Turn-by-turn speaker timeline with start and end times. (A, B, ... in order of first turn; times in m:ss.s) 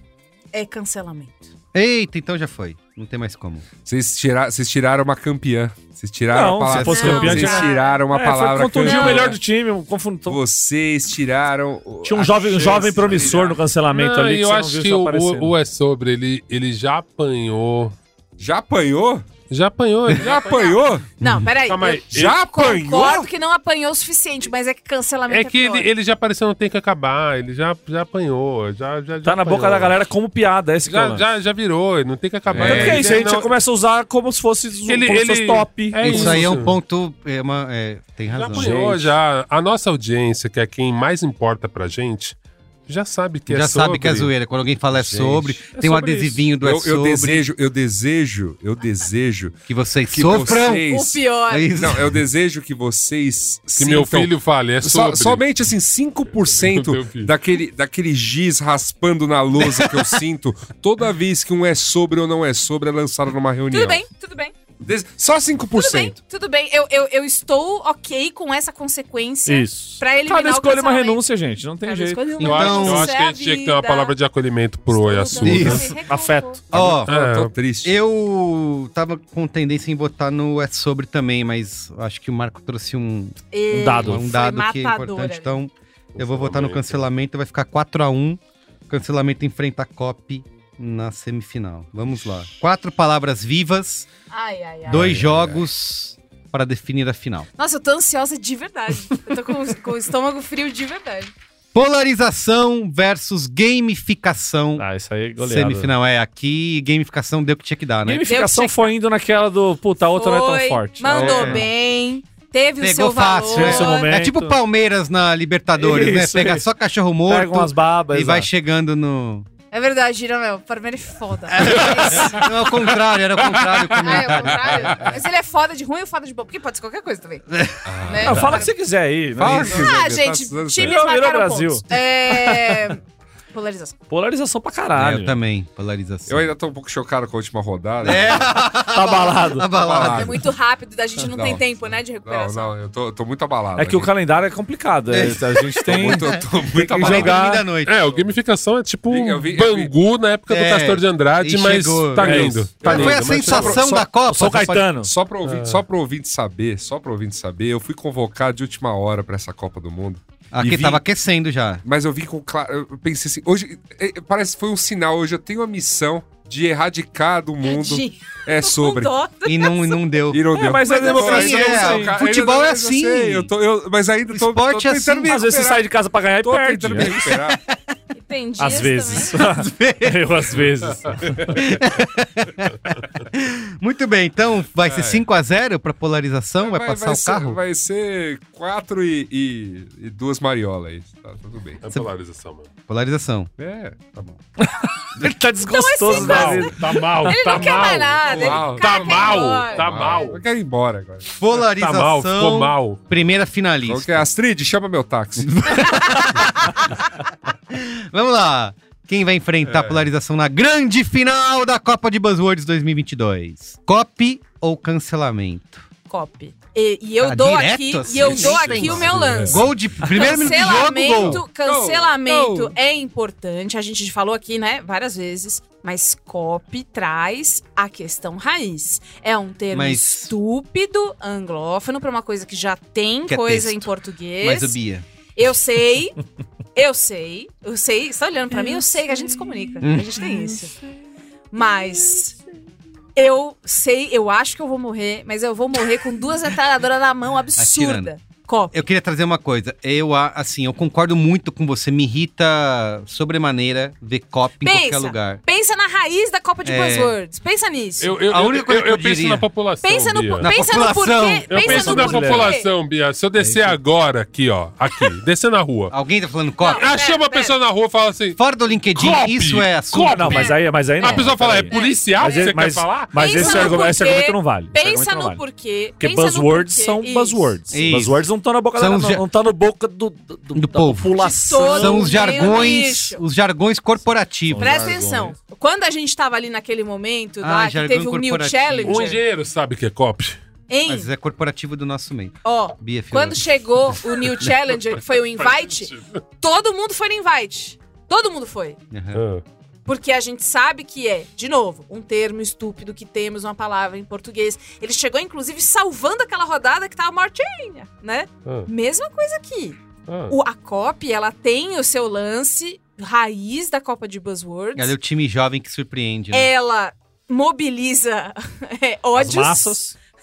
0:00.5-0:01.5 A
0:01.7-0:03.6 B
0:03.8-0:09.4 C
0:06.3-0:10.4 D
0:06.6-0:07.6 B
0:06.8-0:08.0 A
0:08.8-0:09.4 A
0:10.3-0:13.6 C
0:12.0-0:15.5 D
0:12.4-0:13.4 E
0:13.9-0:18.0 E
0:18.4-0:19.3 C
0:19.5-0:20.7 E
0:20.2-0:21.1 C
0:20.4-0:25.9 A
0:21.2-0:21.5 B
0:21.6-0:22.4 E
0:22.1-0:23.3 C
0:25.3-0:30.0 E
0:29.2-0:31.3 D
0:30.8-0:33.5 E
0:32.5-0:33.2 C
0:32.6-0:36.6 D
0:34.9-0:36.8 E
0:36.0-0:38.7 B
0:38.3-0:44.3 E
0:38.5-0:39.1 D
0:43.5-0:47.5 B
0:44.9-0:45.6 C
0:45.8-0:46.4 D
0:46.6-0:49.6 C
0:49.7-0:50.9 B
0:50.1-0:51.2 C
0:50.4-0:51.7 A
0:51.5-0:52.2 B
0:51.8-1:04.0 C
0:53.8-0:55.5 E
0:56.4-0:57.3 E
0:59.6-1:00.2 B
1:03.7-1:04.5 A
1:04.8-1:06.2 C
1:05.8-1:11.2 A
1:09.5-1:12.3 D
1:11.8-1:14.1 A
1:12.4-1:13.2 B
1:12.4-1:15.9 E
1:14.9-1:16.6 A
1:15.4-1:16.0 B
1:15.7-1:16.6 D
1:16.7-1:17.1 B
1:16.7-1:18.0 C
1:17.0-1:17.5 E
1:17.8-1:23.4 B
1:23.5-1:25.6 A
1:23.7-1:24.3 D
1:23.9-1:34.1 B
1:26.2-1:27.0 E
1:34.3-1:35.1 A
1:34.9-1:37.5 B
1:34.9-1:35.6 C
1:37.6-1:41.3 A
1:41.7-1:44.8 B
1:44.8-1:45.9 D
1:45.4-1:48.3 B
1:48.0-1:51.7 D
1:48.3-1:48.9 A
1:50.1-1:54.0 A
1:51.1-1:51.7 B
1:52.8-1:59.5 B
1:53.5-1:54.6 D
1:55.8-1:56.7 D
1:57.3-1:58.5 D
1:59.7-2:02.9 A
2:01.5-2:05.0 B
2:03.9-2:05.1 C
2:03.9-2:07.5 A
2:07.5-2:07.9 B
2:07.9-2:08.6 C
2:08.0-2:08.7 A
2:08.2-2:09.9 D
2:09.4-2:11.0 C
2:09.5-2:13.0 A
2:10.8-2:11.9 D
2:13.5-2:14.0 A
2:14.1-2:15.4 D
2:14.9-2:16.5 B
2:16.3-2:18.6 C
2:18.0-2:20.4 B
2:18.8-2:19.7 D
2:19.7-2:20.4 C
2:19.9-2:22.7 A
2:21.3-2:21.6 C
2:22.2-2:24.1 C
2:23.8-2:26.3 D
2:25.1-2:28.1 B
2:25.9-2:27.4 C
2:26.9-2:27.6 D
2:27.8-2:33.8 E
2:29.1-2:29.9 C
2:30.5-2:34.9 B
2:32.2-2:35.1 D
2:32.3-2:33.8 C
2:35.0-2:40.2 C
2:35.4-2:35.8 E
2:40.5-2:41.8 B
2:40.6-2:41.0 D
2:41.8-2:49.1 C
2:47.6-2:50.2 A
2:49.5-2:53.5 B
2:50.3-2:57.6 C
2:50.5-2:52.2 D
2:54.3-2:55.4 B
2:55.3-2:57.2 D
2:57.0-2:57.8 B
2:58.2-2:59.4 A
2:58.6-3:01.6 D
2:59.4-3:00.3 B
3:01.5-3:07.6 B
3:04.9-3:05.2 C
3:06.6-3:11.8 C
3:11.8-3:12.7 E
3:12.9-3:13.5 B
3:13.6-3:14.3 C
3:14.6-3:17.5 D
3:15.6-3:20.3 A
3:16.1-3:20.4 E
3:17.5-3:21.3 C
3:21.4-3:24.3 B
3:21.7-3:23.0 E
3:23.9-3:26.0 C
3:25.4-3:26.9 B
3:27.7-3:35.9 B
3:29.7-3:30.1 C
3:36.1-3:54.8 A
3:37.2-3:41.4 B
3:38.2-3:39.4 C
3:38.5-3:39.8 E
3:41.6-3:42.7 C
3:49.7-3:50.3 B
3:53.3-3:55.0 B
3:55.4-3:56.2 A
3:56.8-4:00.8 A
3:59.8-4:00.3 B
4:01.5-4:02.4 A
4:03.2-4:08.8 A
4:07.6-4:08.1 B
4:08.7-4:15.4 B
4:14.6-4:18.2 A
4:16.6-4:17.2 B
4:18.0-4:20.5 E
4:18.3-4:19.5 B
4:19.8-4:22.7 A
4:20.4-4:22.1 B
4:21.5-4:25.9 E
4:21.6-4:22.6 D
4:23.4-4:23.7 D
4:25.9-4:26.9 B
4:26.6-4:27.6 A
4:26.6-4:28.4 E
4:28.4-4:30.5 B
4:28.9-4:33.9 E
4:29.9-4:35.4 D
4:30.3-4:32.5 A
4:33.1-4:37.6 A
4:36.0-4:42.4 D
4:37.7-4:39.2 B
4:40.5-4:41.2 B
4:41.2-4:43.2 A
4:41.7-4:44.9 B
4:44.5-4:45.4 D
4:44.6-4:49.2 A
4:47.4-4:49.1 B
4:48.8-4:50.4 E
4:50.7-4:51.1 A
4:50.9-4:53.4 B
4:52.4-4:58.8 A
4:55.4-4:56.2 E
4:58.9-4:59.2 B
4:59.1-4:59.4 E
4:59.9-5:14.9 A
5:10.1-5:10.4 E
5:14.8-5:16.5 B
5:16.3-5:19.8 A
5:19.2-5:20.0 D